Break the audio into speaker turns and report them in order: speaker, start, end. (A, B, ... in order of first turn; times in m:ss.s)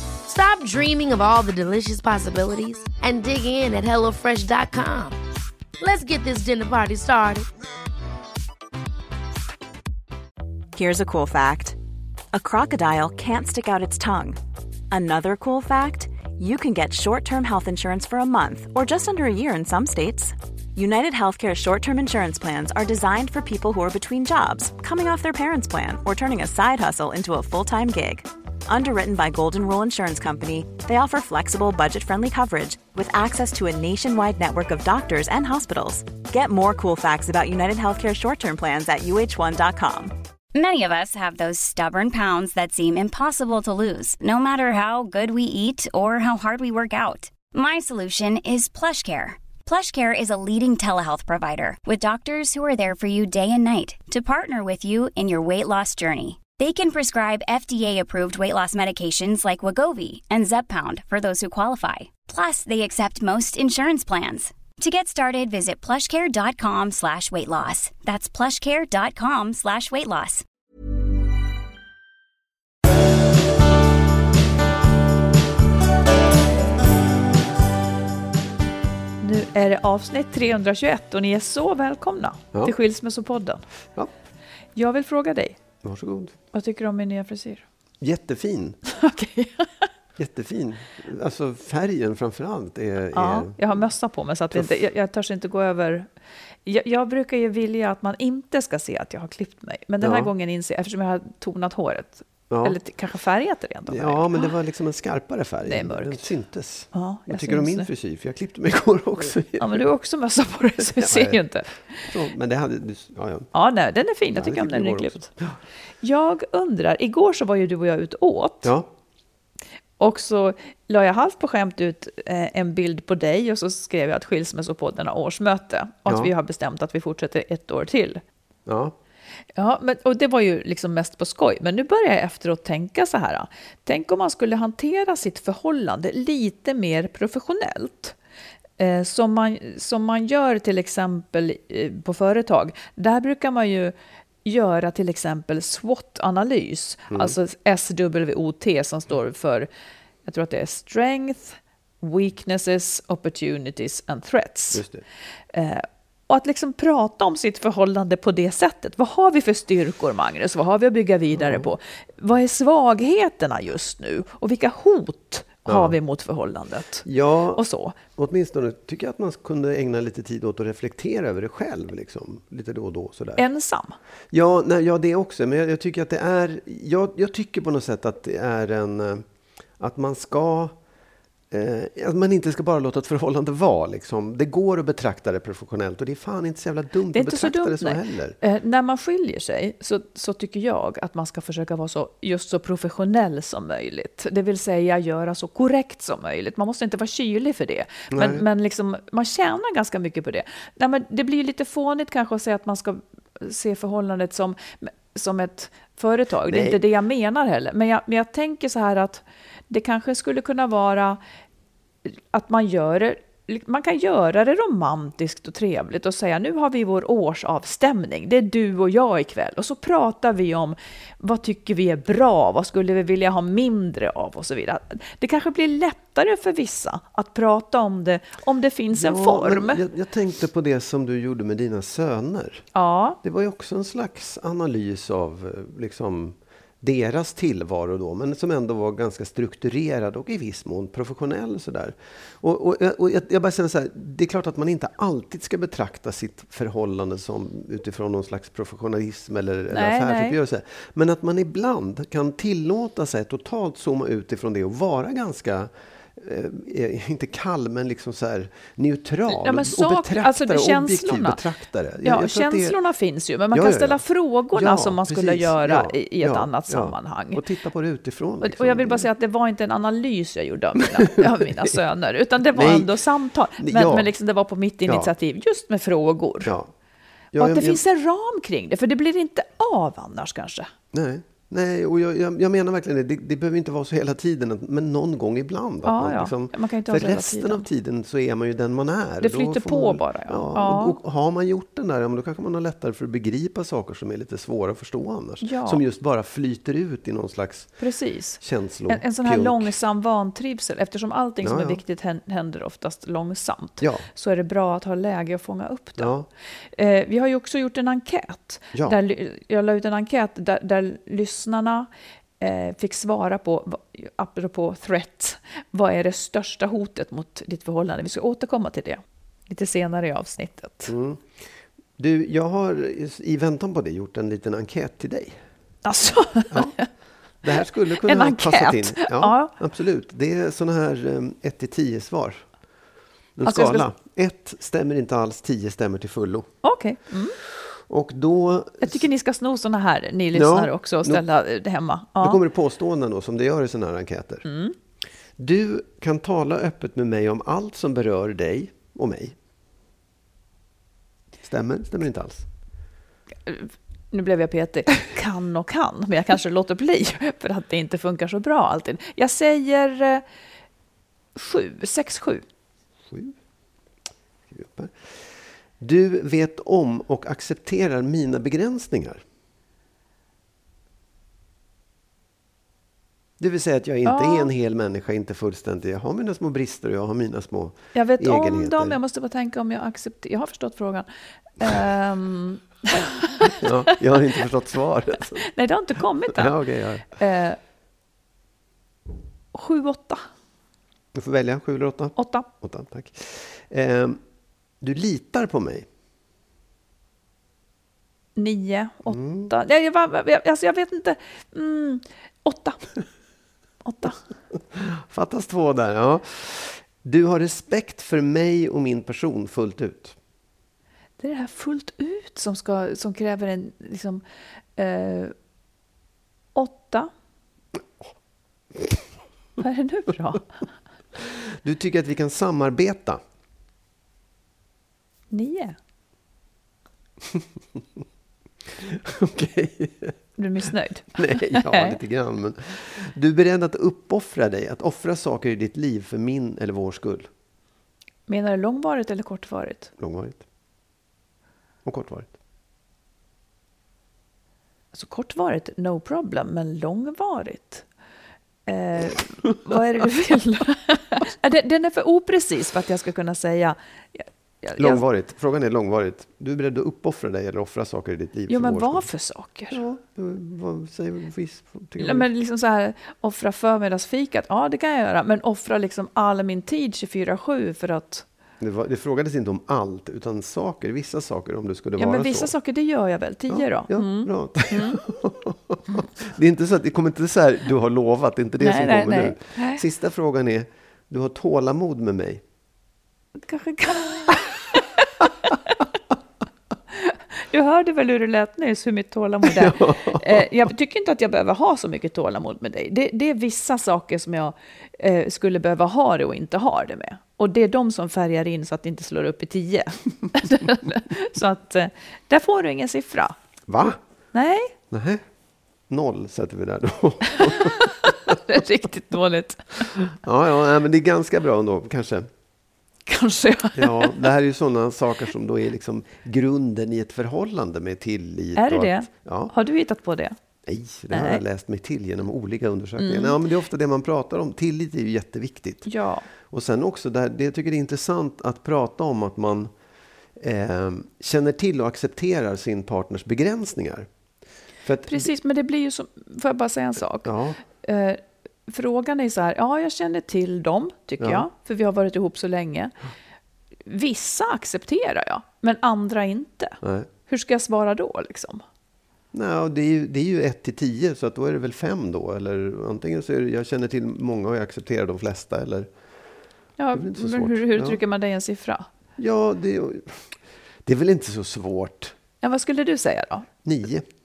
0:00.3-0:05.2 A
0:05.8-0:07.5 A
0:10.7-0:11.8 B
0:12.3-0:14.4 B
0:14.9-0:40.1 B
0:40.5-1:10.4 C
1:19.2-1:23.6 D
1:24.8-1:25.6 D
1:25.8-1:26.4 E
1:26.5-1:27.6 D
1:28.0-1:28.8 E
1:28.9-1:29.9 D
1:30.2-1:33.8 E
1:33.1-1:36.1 D
1:36.7-1:44.5 D
1:40.0-1:40.3 E
1:42.5-1:42.8 E
1:43.9-1:49.8 E
1:45.7-1:46.3 D
1:46.9-1:47.9 D
1:49.6-1:52.1 D
1:50.9-1:51.4 E
1:52.0-1:53.5 E
1:53.5-1:55.3 D
1:54.3-1:55.6 E
1:56.0-1:58.7 D
1:58.6-1:58.9 E
2:00.0-2:08.2 D
2:06.1-2:06.3 E
2:08.7-2:09.0 E
2:09.6-2:18.2 D
2:18.8-2:23.9 D
2:24.4-2:29.7 D
2:27.1-2:27.4 E
2:30.2-2:34.9 D
2:34.7-2:35.0 E
2:35.5-2:48.0 D
2:41.3-2:41.7 E
2:45.7-2:46.0 E
2:47.0-2:53.5 E
2:53.4-2:54.0 D
2:54.3-2:59.3 E
2:59.8-3:00.8 E
3:01.5-3:08.4 E
3:07.1-3:31.2 D
3:18.1-3:18.4 E
3:26.5-3:26.8 E
3:32.1-3:49.8 D
3:48.9-3:52.6 E
3:52.7-3:53.2 D
3:53.2-4:22.8 E
4:09.7-4:10.4 D
4:19.3-4:21.4 D
4:22.0-4:27.4 D
4:23.5-4:29.1 E
4:28.4-4:36.5 D
4:31.1-4:31.8 E
4:32.5-4:33.0 E
4:33.6-4:34.1 E
4:34.9-4:35.1 E
4:36.4-4:36.7 E
4:37.3-4:37.8 E
4:37.4-4:40.7 D
4:40.9-4:57.8 E
4:45.8-4:47.7 D
4:49.2-4:51.0 D
4:55.4-4:55.8 D
4:57.8-5:06.1 D
4:58.4-4:59.7 E
5:01.4-5:01.8 E
5:03.8-5:04.1 E
5:06.0-5:06.3 E
5:06.8-5:20.9 D
5:20.9-5:25.4 E
5:25.8-5:26.9 D
5:26.5-5:32.5 E
5:28.0-5:29.5 D
5:33.4-5:36.5 E
5:33.4-5:33.9 D
5:36.6-5:37.4 D
5:37.4-5:39.1 E
5:38.8-5:42.4 D
5:40.3-5:41.2 E
5:42.2-5:44.4 E
5:44.4-5:44.8 D
5:45.4-5:49.4 E
5:51.4-5:52.5 E
5:53.5-6:00.2 D
6:01.4-6:02.4 D
6:03.1-6:03.4 E
6:04.5-6:09.2 E
6:13.4-6:19.0 E
6:14.0-6:14.5 D
6:17.9-6:23.6 D
6:23.6-6:25.5 E
6:25.5-6:27.6 D
6:26.3-6:27.2 E
6:29.5-6:30.3 D
6:31.2-6:34.2 E
6:32.2-6:32.5 D
6:34.8-6:35.9 E
6:38.4-6:42.8 D
6:39.1-6:39.5 E
6:43.8-6:44.2 D
6:44.5-6:50.2 E
6:51.2-6:54.2 D
6:54.8-6:55.3 D
6:56.6-6:57.1 D
6:59.6-7:00.7 D
7:01.2-7:03.2 E
7:05.3-7:05.8 D
7:08.8-7:10.2 E
7:10.4-7:12.0 D
7:11.1-7:17.3 E
7:18.3-7:19.9 D
7:20.0-7:20.4 E
7:21.8-7:22.3 E
7:24.9-7:27.9 D
7:28.7-7:35.0 D
7:34.8-7:39.1 E
7:38.5-7:39.8 D
7:39.7-7:42.3 E
7:42.0-7:48.3 D
7:48.6-7:52.5 E
7:52.0-7:55.0 D
7:53.5-8:02.4 E
7:58.6-7:59.8 D
8:03.4-8:05.0 D
8:06.9-8:23.4 D
8:09.4-8:10.5 E
8:23.7-8:24.0 E
8:24.3-8:24.8 D
8:24.9-8:25.2 E
8:25.9-8:28.4 E
8:28.3-8:29.9 D
8:30.0-8:32.3 E
8:33.1-8:34.2 D
8:33.8-8:39.5 E
8:38.6-8:40.4 D
8:40.7-8:45.9 E
8:41.1-8:41.4 D
8:43.0-8:43.4 D
8:45.9-8:46.3 D
8:46.5-8:49.7 E
8:50.4-8:54.1 E
8:54.8-8:55.3 E
8:55.1-9:03.0 D
8:57.2-8:57.6 E
9:01.2-9:01.5 E
9:03.9-9:08.6 D
9:06.8-9:07.1 E
9:09.3-9:15.9 E
9:16.8-9:18.9 D
9:16.9-9:18.0 E
9:19.2-9:22.2 E
9:22.4-9:23.5 D
9:23.6-9:24.1 E